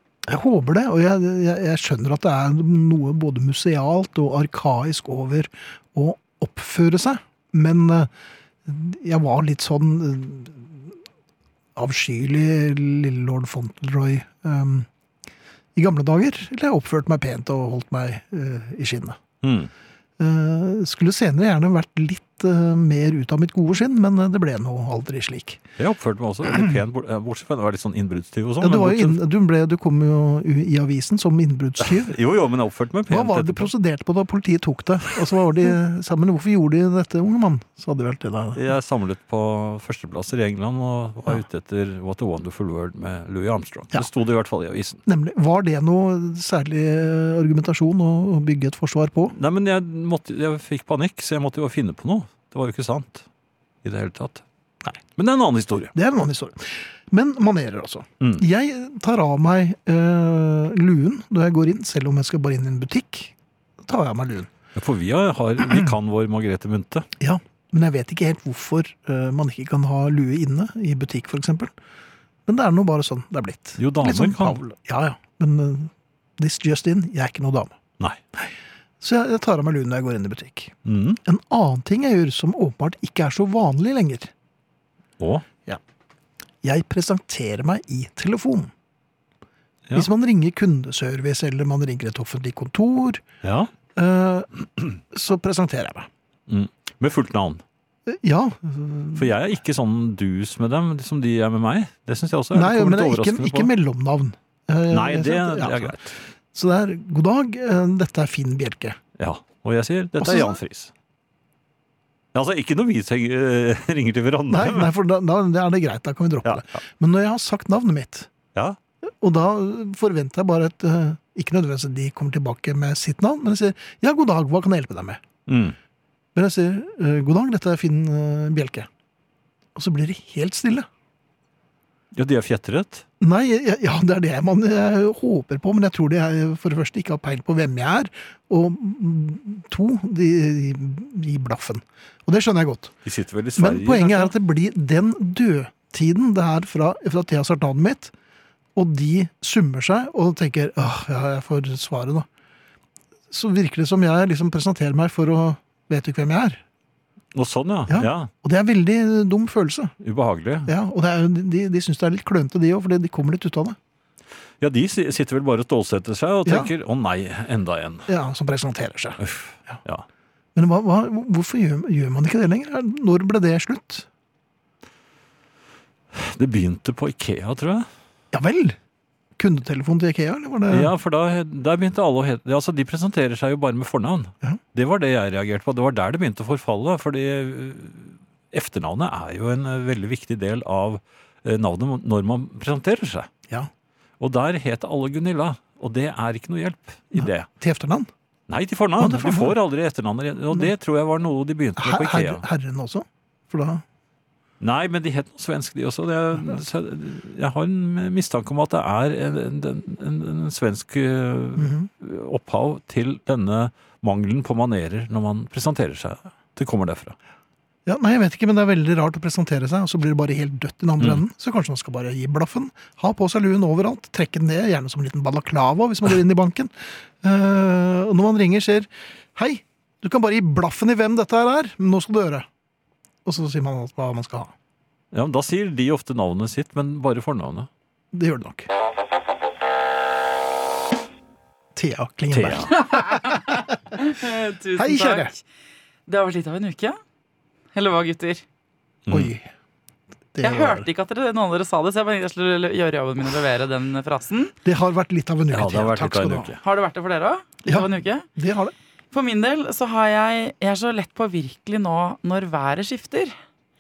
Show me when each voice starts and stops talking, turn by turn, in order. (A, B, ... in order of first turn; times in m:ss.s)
0:00.3-0:08.1 A
0:08.7-0:11.0 A
0:11.8-0:14.9 A
0:15.8-0:19.2 A
0:19.4-0:19.7 B
0:20.2-0:25.6 A
0:25.8-0:29.2 B
0:28.6-0:32.2 A
0:31.8-0:33.7 B
0:33.1-0:38.7 A
0:38.6-0:45.0 B
0:45.1-0:49.4 A
0:49.3-0:53.3 B
0:53.8-0:54.4 B
0:55.2-0:55.9 B
0:55.9-1:04.5 A
0:58.2-0:58.4 B
1:04.8-1:07.1 B
1:05.6-1:05.9 A
1:07.2-1:11.7 A
1:12.5-1:17.8 A
1:13.8-1:14.6 B
1:18.4-1:20.7 A
1:20.8-1:21.2 B
1:21.2-1:24.3 A
1:25.2-1:25.5 B
1:26.6-1:28.7 A
1:29.9-1:33.2 A
1:33.4-1:33.7 B
1:34.0-1:36.1 A
1:36.5-1:37.6 B
1:38.1-1:39.4 A
1:39.2-1:43.7 B
1:42.5-1:46.0 A
1:44.9-1:46.1 B
1:46.5-1:49.0 A
1:49.2-1:50.9 B
1:50.2-1:50.6 A
1:52.3-1:54.9 B
1:54.5-1:58.3 A
1:59.1-2:05.2 A
2:05.5-2:05.8 B
2:06.4-2:08.9 A
2:09.8-2:10.9 A
2:12.1-2:13.0 B
2:13.2-2:22.9 A
2:23.0-2:24.3 B
2:23.6-2:28.1 A
2:28.8-2:32.3 A
2:33.3-2:36.6 A
2:37.3-2:38.3 B
2:37.9-2:39.9 A
2:40.0-2:40.7 B
2:40.7-2:43.8 A
2:44.6-2:48.1 B
2:46.5-2:46.7 A
2:48.1-2:49.2 A
2:49.2-2:50.0 B
2:50.6-2:54.1 A
2:56.1-2:57.9 B
2:58.3-2:58.8 A
2:59.4-3:00.9 A
3:00.7-3:13.3 B
3:14.2-3:17.5 B
3:17.2-3:18.1 A
3:18.5-3:22.4 B
3:19.0-3:19.6 A
3:21.8-3:23.8 A
3:24.6-3:37.2 B
3:31.6-3:31.9 A
3:37.9-3:52.5 A
3:53.2-3:54.5 A
3:55.1-3:57.7 B
3:58.1-3:58.7 A
4:01.8-4:03.7 A
4:02.3-4:02.7 B
4:02.7-4:05.4 C
4:04.8-4:05.3 A
4:06.1-4:07.0 C
4:07.7-4:08.4 C
4:09.1-4:09.3 B
4:09.1-4:09.5 A
4:10.4-4:10.9 A
4:10.4-4:14.5 C
4:14.6-4:16.5 A
4:15.5-4:16.6 B
4:16.6-4:18.3 C
4:17.7-4:18.7 A
4:19.1-4:23.3 C